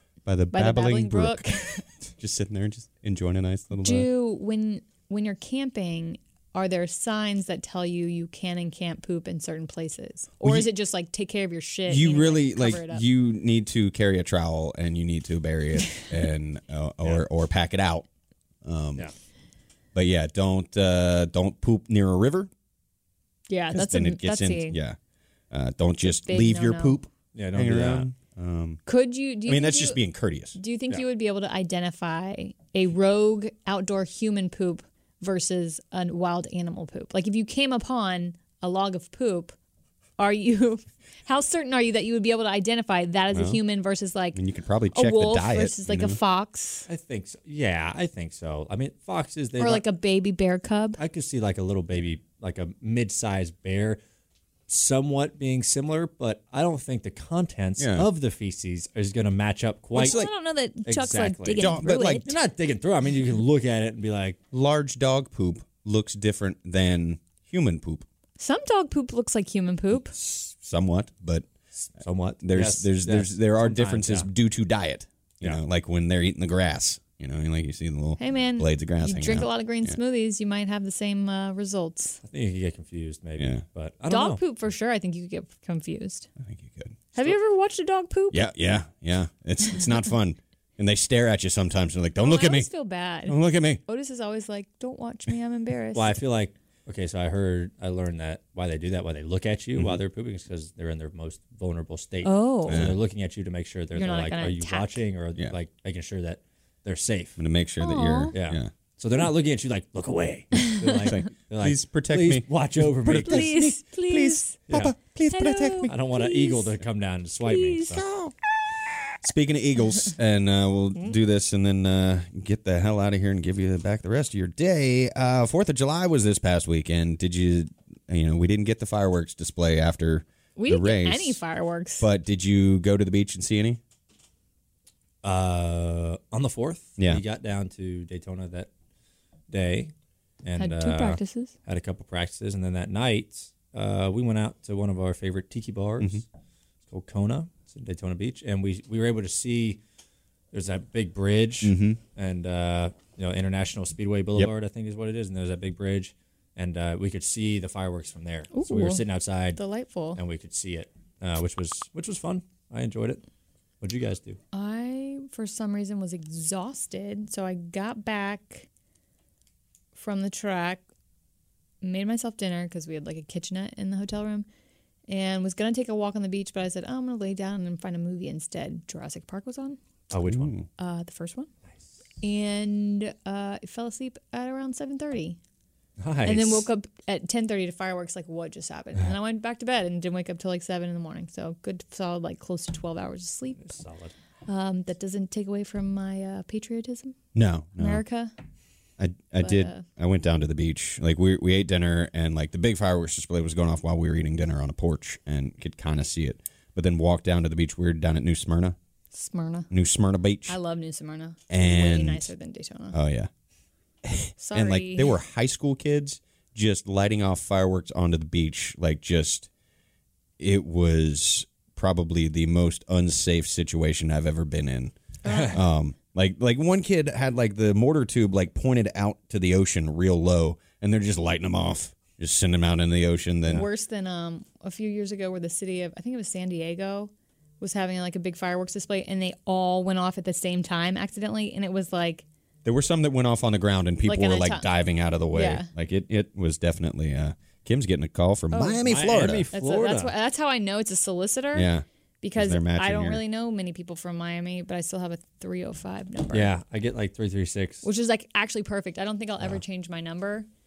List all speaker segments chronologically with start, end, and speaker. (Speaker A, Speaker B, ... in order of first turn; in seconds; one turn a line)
Speaker A: 0.2-1.5
Speaker B: 0.5-1.9
Speaker A: 2.1-4.1
Speaker B: 3.7-13.0
Speaker A: 10.4-10.7
Speaker A: 11.9-18.1
Speaker A: 18.6-19.1
Speaker A: 19.9-22.5
Speaker B: 23.5-24.8
Speaker A: 23.7-25.0
Speaker A: 25.5-28.8
Speaker B: 26.1-27.0
Speaker C: 27.3-28.1
Speaker B: 28.9-30.0
Speaker A: 29.4-30.6
Speaker B: 30.5-39.5
Speaker B: 40.2-44.4
Speaker A: 43.3-43.6
Speaker A: 44.3-46.2
Speaker B: 44.9-46.9
Speaker C: 46.9-49.8
Speaker B: 49.6-51.0
Speaker C: 51.0-54.0
Speaker C: 54.7-60.3
Speaker A: 57.8-58.1
Speaker B: 59.9-62.3
Speaker A: 60.0-60.3
Speaker C: 60.9-64.4
Speaker A: 61.6-62.2
Speaker A: 64.5-68.0
Speaker B: 68.4-70.1
Speaker A: 70.2-71.5
Speaker C: 71.8-74.3
Speaker A: 72.4-80.0
Speaker B: 78.2-82.2
Speaker C: 82.2-84.4
Speaker A: 83.4-83.6
Speaker B: 84.1-86.3
Speaker A: 86.4-87.0
Speaker B: 87.1-88.5
Speaker A: 88.3-92.7
Speaker B: 92.2-96.2
Speaker A: 93.2-93.8
Speaker C: 95.9-107.4
Speaker A: 99.8-100.0
Speaker B: 102.2-102.9
Speaker A: 102.7-103.0
Speaker B: 103.9-105.0
Speaker A: 107.4-108.7
Speaker B: 107.8-108.3
Speaker C: 108.3-113.7
Speaker B: 110.5-111.1
Speaker A: 111.0-115.9
Speaker B: 113.2-114.6
Speaker C: 114.7-115.0
Speaker B: 115.3-116.7
Speaker C: 115.8-118.0
Speaker B: 117.4-118.0
Speaker A: 117.9-118.3
Speaker A: 119.2-131.4
Speaker B: 130.6-132.1
Speaker A: 132.0-133.8
Speaker C: 135.2-138.7
Speaker C: 139.5-139.9
Speaker C: 140.4-146.2
Speaker B: 140.6-141.5
Speaker C: 146.9-149.8
Speaker C: 150.5-159.6
Speaker A: 151.6-152.0
Speaker B: 158.5-159.0
Speaker B: 159.5-160.2
Speaker C: 160.1-163.2
Speaker C: 163.8-164.4
Speaker B: 164.5-168.7
Speaker B: 169.9-170.8
Speaker B: 171.8-174.4
Speaker B: 175.1-179.8
Speaker C: 180.1-180.5
Speaker A: 180.3-180.7
Speaker B: 180.8-181.5
Speaker B: 182.2-185.4
Speaker C: 186.0-186.7
Speaker B: 186.2-193.8
Speaker C: 193.6-194.1
Speaker B: 194.5-197.2
Speaker A: 197.3-198.0
Speaker B: 197.8-198.3
Speaker A: 199.0-208.8
Speaker B: 199.4-199.8
Speaker B: 209.1-209.7
Speaker A: 209.7-210.6
Speaker B: 210.5-212.9
Speaker A: 211.5-212.3
Speaker A: 212.9-213.3
Speaker A: 214.0-219.5
Speaker B: 214.4-215.1
Speaker A: 220.4-224.9
Speaker B: 225.2-225.6
Speaker C: 225.2-225.6
Speaker A: 225.5-233.7
Speaker B: 233.5-242.2
Speaker A: 242.6-249.5
Speaker B: 244.0-244.7
Speaker B: 245.3-245.7
Speaker B: 248.5-248.8
Speaker C: 248.8-250.1
Speaker B: 249.5-251.7
Speaker A: 251.5-251.8
Speaker B: 252.2-256.5
Speaker A: 252.3-253.2
Speaker C: 256.3-257.8
Speaker B: 257.8-260.5